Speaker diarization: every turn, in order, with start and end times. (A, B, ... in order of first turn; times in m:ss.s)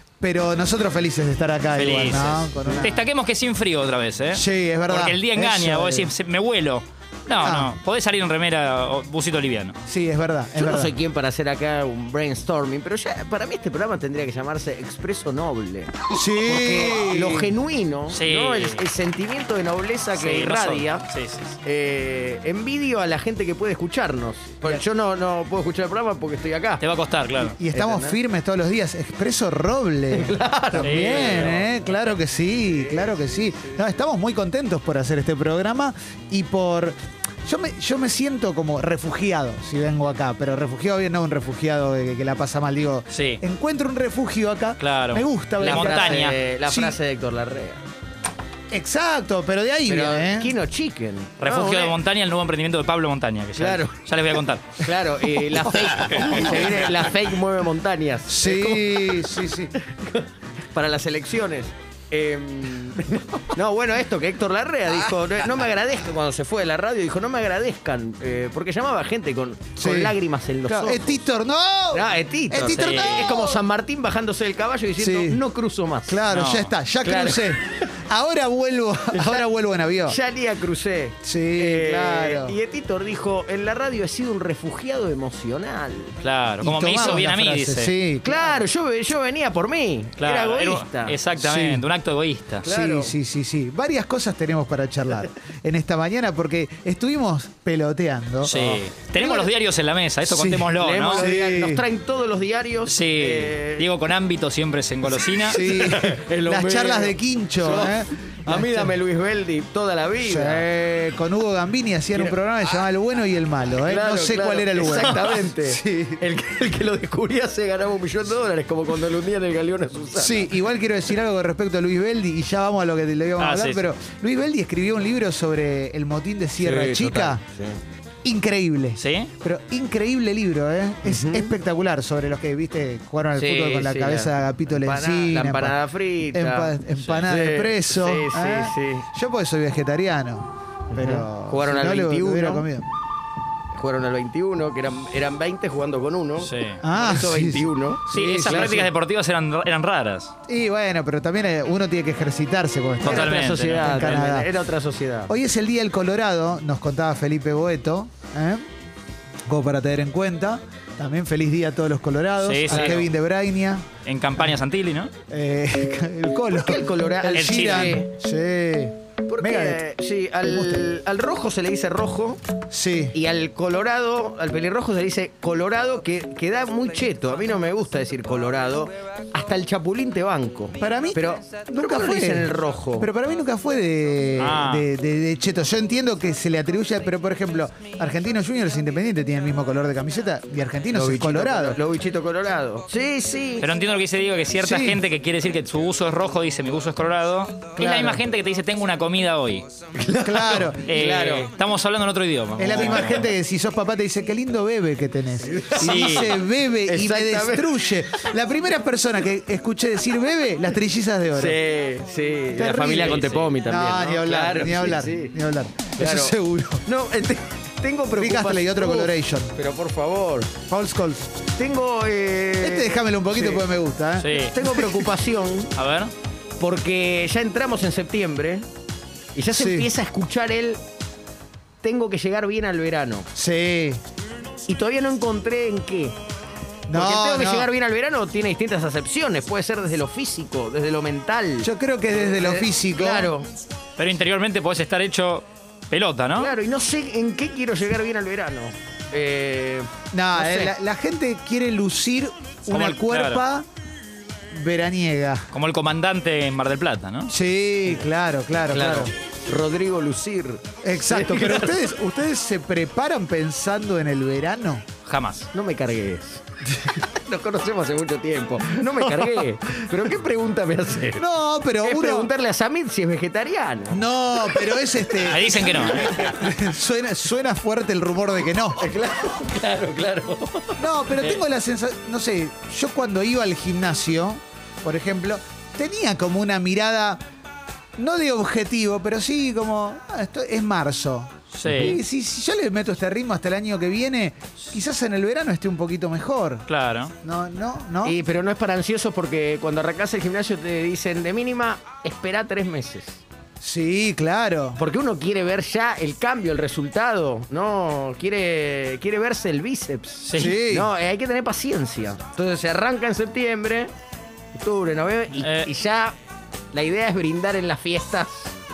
0:00.2-0:03.0 A
0:01.8-0:09.8 B
0:04.3-0:06.1 A
0:07.4-0:07.8 A
0:09.9-0:10.9 A
0:10.6-0:21.1 C
0:16.1-0:17.6 A
0:18.1-0:18.8 B
0:20.2-0:21.6 B
0:21.6-0:26.8 C
0:26.8-0:27.6 B
0:27.6-0:47.0 A
0:27.6-0:28.2 C
0:30.1-0:31.6 C
0:30.8-0:31.7 B
0:32.6-0:33.8 C
0:43.1-0:43.4 B
0:44.8-0:46.4 B
0:45.6-0:47.8 C
0:48.7-0:50.5 A
0:49.9-0:52.0 C
0:51.4-0:54.9 B
0:53.6-0:54.0 C
0:54.8-1:11.2 C
0:58.3-0:59.7 A
1:09.8-1:13.6 A
1:11.9-1:16.2 C
1:12.7-1:13.2 B
1:15.0-1:15.4 A
1:16.1-1:20.2 A
1:16.3-1:16.7 B
1:17.0-1:17.7 C
1:19.1-1:19.5 C
1:20.1-1:26.2 C
1:21.2-1:22.6 A
1:26.2-1:27.9 B
1:26.6-1:28.7 A
1:28.2-1:31.2 C
1:30.2-1:32.7 B
1:31.4-1:31.8 A
1:32.6-1:33.2 C
1:32.6-1:38.7 A
1:38.4-1:41.2 B
1:39.2-1:39.5 A
1:40.3-1:41.8 A
1:40.8-1:43.9 C
1:42.9-1:45.6 B
1:45.2-1:48.9 A
1:45.5-1:50.7 C
1:50.2-1:56.2 A
1:53.9-2:00.6 C
2:00.2-2:07.4 A
2:03.4-2:03.9 B
2:06.6-2:07.8 C
2:08.2-2:15.8 A
2:09.0-2:09.3 B
2:11.0-2:11.5 C
2:13.4-2:16.8 C
2:16.3-2:22.9 A
2:17.3-2:19.1 C
2:20.9-2:22.7 C
2:23.7-2:28.9 C
2:26.4-2:26.8 B
2:26.8-2:27.7 A
2:28.1-2:30.3 B
2:28.4-2:28.9 A
2:30.5-2:34.5 A
2:33.0-2:34.1 B
2:33.0-2:35.3 C
2:35.3-2:38.6 A
2:39.5-2:43.8 A
2:42.4-2:43.1 B
2:42.7-2:43.0 C
2:44.0-2:45.1 B
2:45.3-2:49.8 A
2:46.6-2:48.1 C
2:47.3-2:48.0 B
2:49.3-2:52.4 C
2:50.4-2:50.9 A
2:52.7-2:53.2 A
2:53.1-3:03.1 C
3:00.8-3:11.8 A
3:04.4-3:04.9 B
3:10.9-3:13.7 C
3:13.6-3:19.7 B
3:14.6-3:15.0 A
3:17.8-3:18.2 A
3:20.0-3:21.5 C
3:20.2-3:20.9 A
3:20.9-3:23.2 B
3:22.6-3:31.6 A
3:22.7-3:23.0 C
3:25.5-3:27.9 C
3:25.8-3:26.4 B
3:31.3-3:35.4 C
3:32.5-3:36.8 A
3:33.1-3:33.5 B
3:36.0-3:36.4 C
3:36.9-3:40.5 C
3:38.2-3:39.5 A
3:40.7-3:41.2 A
3:41.6-3:43.7 C
3:42.6-3:45.1 A
3:44.2-3:44.6 B
3:44.4-3:45.7 C
3:45.8-3:46.1 B
3:46.6-3:48.7 C
3:49.4-3:50.8 C
3:49.5-3:49.9 A
3:51.8-3:53.3 C
3:53.4-3:54.0 A
3:54.7-3:56.2 C
3:56.9-3:57.7 A
3:56.9-4:03.5 C
4:01.6-4:03.3 A
4:04.0-4:06.5 B
4:06.4-4:09.9 C
4:10.1-4:13.7 A
4:10.4-4:10.7 B
4:12.7-4:13.4 B
4:14.5-4:15.5 A
4:15.5-4:17.3 B
4:17.3-4:19.1 A
4:18.7-4:21.9 C
4:20.8-4:24.9 A
4:25.1-4:25.5 B
4:25.5-4:26.4 C
4:26.9-4:31.2 C
4:29.1-4:29.4 A
4:31.2-4:32.3 A
4:31.8-4:34.7 C
4:33.9-4:38.8 A
4:35.3-4:36.2 B
4:35.4-4:36.1 C
4:38.8-4:41.4 C
4:40.8-4:47.2 A
4:48.0-4:56.7 A
4:51.5-4:52.0 B
4:51.7-4:52.0 C
4:56.7-4:57.1 B
4:57.2-4:58.2 A
4:58.0-5:03.2 C
5:03.6-5:04.8 A
5:04.8-5:13.9 C
5:10.2-5:10.6 B
5:10.4-5:10.9 A
5:14.6-5:16.2 C
5:15.4-5:15.7 B
5:16.7-5:18.5 C